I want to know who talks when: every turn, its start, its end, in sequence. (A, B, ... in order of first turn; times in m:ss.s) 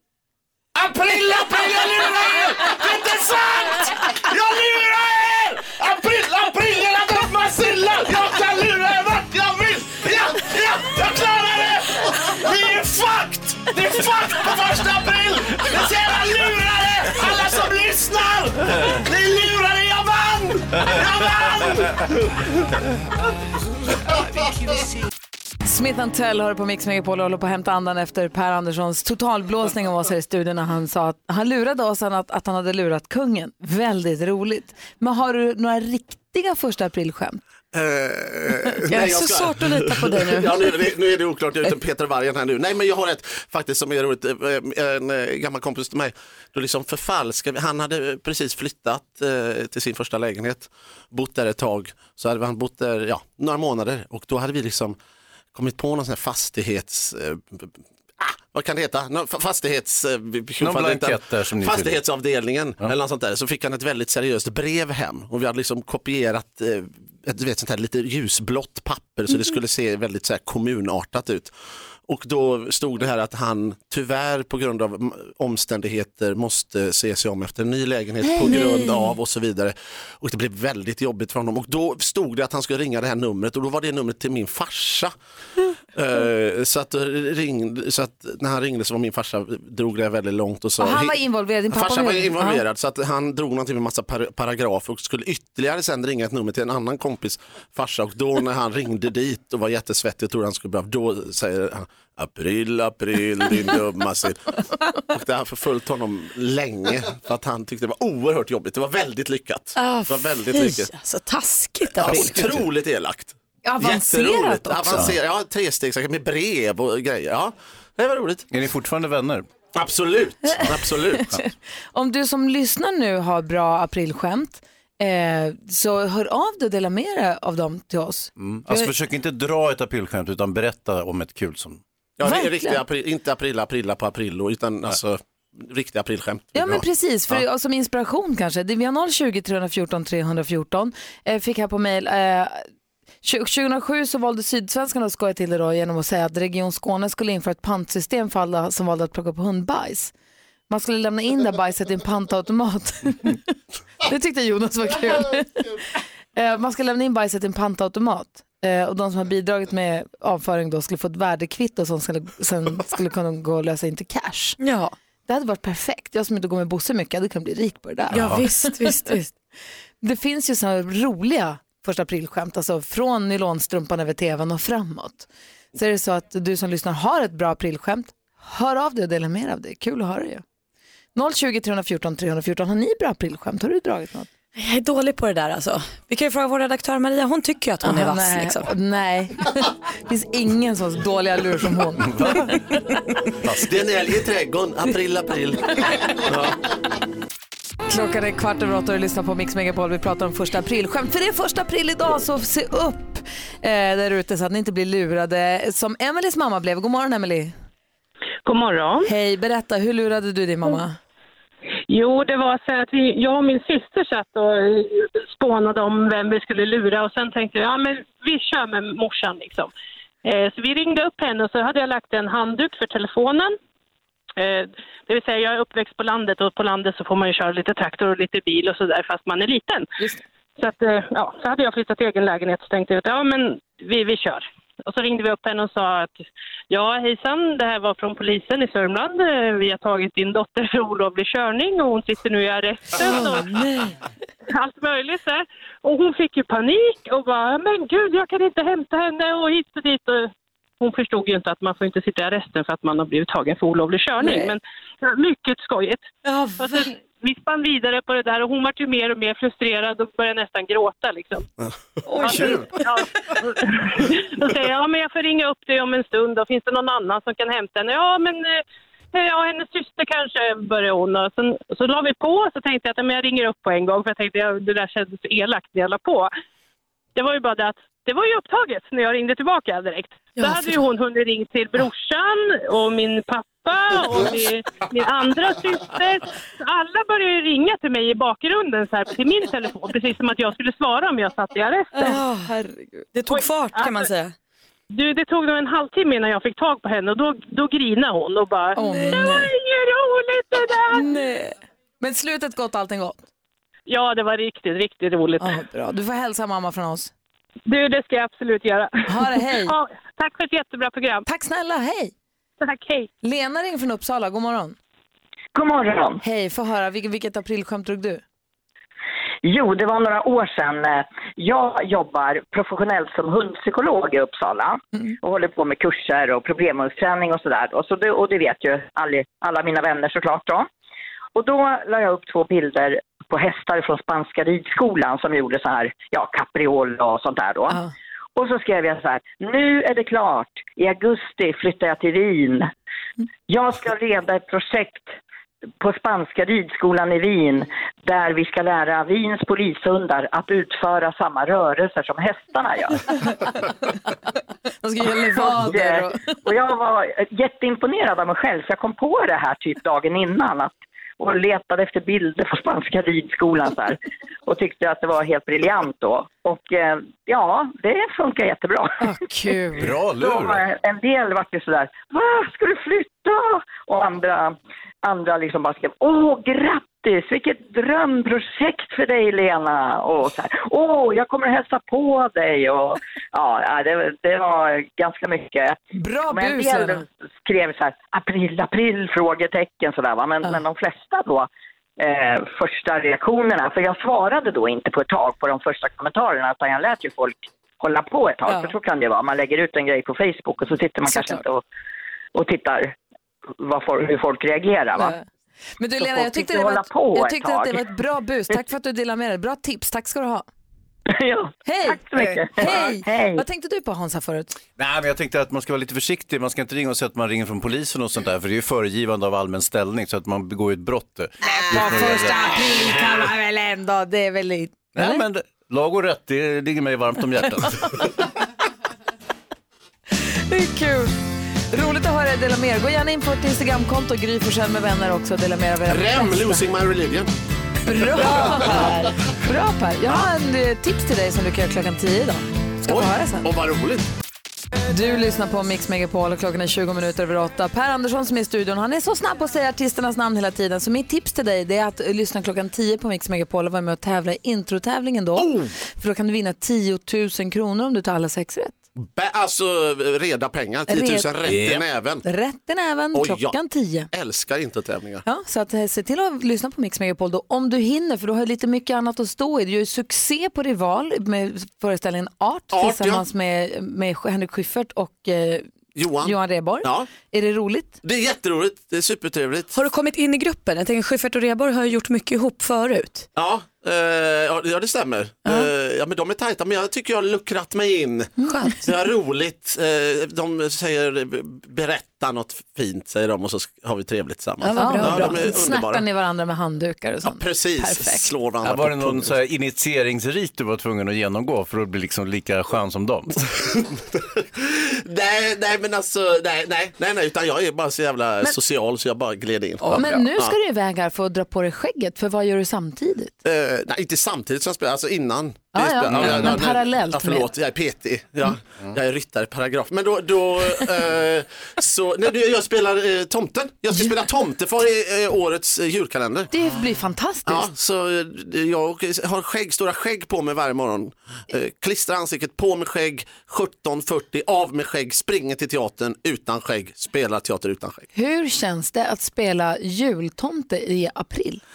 0:00.7-0:22.1 A
0:25.6-0:37.4 B
0:37.7-0:55.0 A
0:38.9-0:40.8 C
0:55.5-1:11.5 A
1:00.6-1:02.0 D
1:12.1-1:25.1 A
1:18.2-1:19.1 B
1:18.4-1:18.9 C
1:26.0-1:31.1 A
1:30.8-1:32.6 B
1:31.7-1:44.6 A
1:45.1-1:50.9 A
1:49.8-1:52.5 C
1:52.0-1:58.5 A
1:53.6-1:55.2 B
1:58.5-1:59.5 D
1:59.7-2:01.3 A
2:00.4-2:08.9 B
2:08.4-2:11.8 D
2:12.2-2:16.8 A
2:12.2-2:12.8 B
2:16.5-2:22.7 B
2:23.2-2:30.1 B
2:30.7-2:33.5 B
2:34.0-2:35.8 B
2:36.3-2:44.6 B
2:44.6-2:44.9 C
2:45.3-2:48.9 B
2:48.1-2:49.3 C
2:48.1-2:48.4 D
2:50.0-3:00.4 B
3:01.1-3:04.3 B
3:04.6-3:08.7 C
3:07.8-3:12.4 B
3:12.1-3:12.6 D
3:13.4-3:13.7 D
3:13.6-3:16.6 A
3:17.9-3:27.5 B
3:28.4-3:29.1 E
3:29.0-3:31.0 B
3:31.9-3:39.7 E
3:40.2-3:43.6 E
3:44.4-3:49.9 E
3:50.6-4:03.6 E
4:03.0-4:03.9 B
4:04.5-4:21.5 E
4:14.2-4:14.5 B
4:16.3-4:16.8 B
4:22.0-4:22.7 B
4:22.2-4:28.6 E
4:29.1-4:36.3 E
4:37.1-4:52.0 E
4:52.0-4:53.0 B
4:52.0-4:52.5 C
4:53.1-4:54.3 C
4:53.3-4:54.1 E
4:54.9-5:01.0 E
4:58.8-4:59.5 B
5:00.9-5:03.3 B
5:03.9-5:05.5 E
5:05.4-5:07.1 B
5:07.7-5:11.2 E
5:09.1-5:09.7 B
5:11.3-5:12.1 B
5:12.6-5:13.1 E
5:13.2-5:14.8 B
5:15.6-5:16.2 F
5:16.2-5:18.2 B
5:19.4-5:30.7 F
5:31.3-5:37.8 F
5:38.4-5:42.7 F
5:43.5-5:45.2 F
5:45.8-5:53.0 F
5:54.8-5:56.3 B
5:55.4-6:09.0 F
6:09.0-6:09.9 B
6:09.8-6:10.6 D
6:10.1-6:41.6 F
6:26.0-6:27.0 B
6:38.5-6:38.7 B
6:41.0-6:41.4 B
6:42.3-6:43.0 F
6:43.6-6:45.2 F
6:45.0-6:45.2 B
6:45.8-6:50.4 B
6:46.0-6:47.8 F
6:51.1-6:53.4 F
6:51.6-6:54.6 B
6:54.8-7:02.8 D
7:01.4-7:05.2 B
7:05.0-7:08.0 D
7:10.5-7:11.1 B
7:11.7-7:16.7 B
7:15.9-7:17.3 A
7:17.9-7:23.5 B
7:18.1-7:18.9 A
7:22.9-7:24.1 A
7:24.9-7:38.8 B
7:35.4-7:35.7 A
7:39.0-7:42.2 A
7:40.9-7:44.1 B
7:41.5-7:41.8 D
7:43.1-7:43.6 A
7:44.1-7:45.2 A
7:45.2-7:58.0 B
7:52.7-7:53.2 A
7:56.0-7:57.1 A
7:58.0-7:59.8 A
7:59.7-8:03.3 C
8:03.4-8:16.0 A
8:08.4-8:08.7 B
8:08.5-8:08.7 C
8:14.6-8:15.6 C
8:14.7-8:18.3 B
8:17.2-8:19.3 A
8:18.6-8:23.4 D
8:24.6-8:30.5 A
8:29.9-8:33.3 B
8:33.4-8:46.5 A
8:35.7-8:37.5 B
8:46.5-8:47.7 B
8:47.4-8:58.0 A
8:58.1-9:01.6 B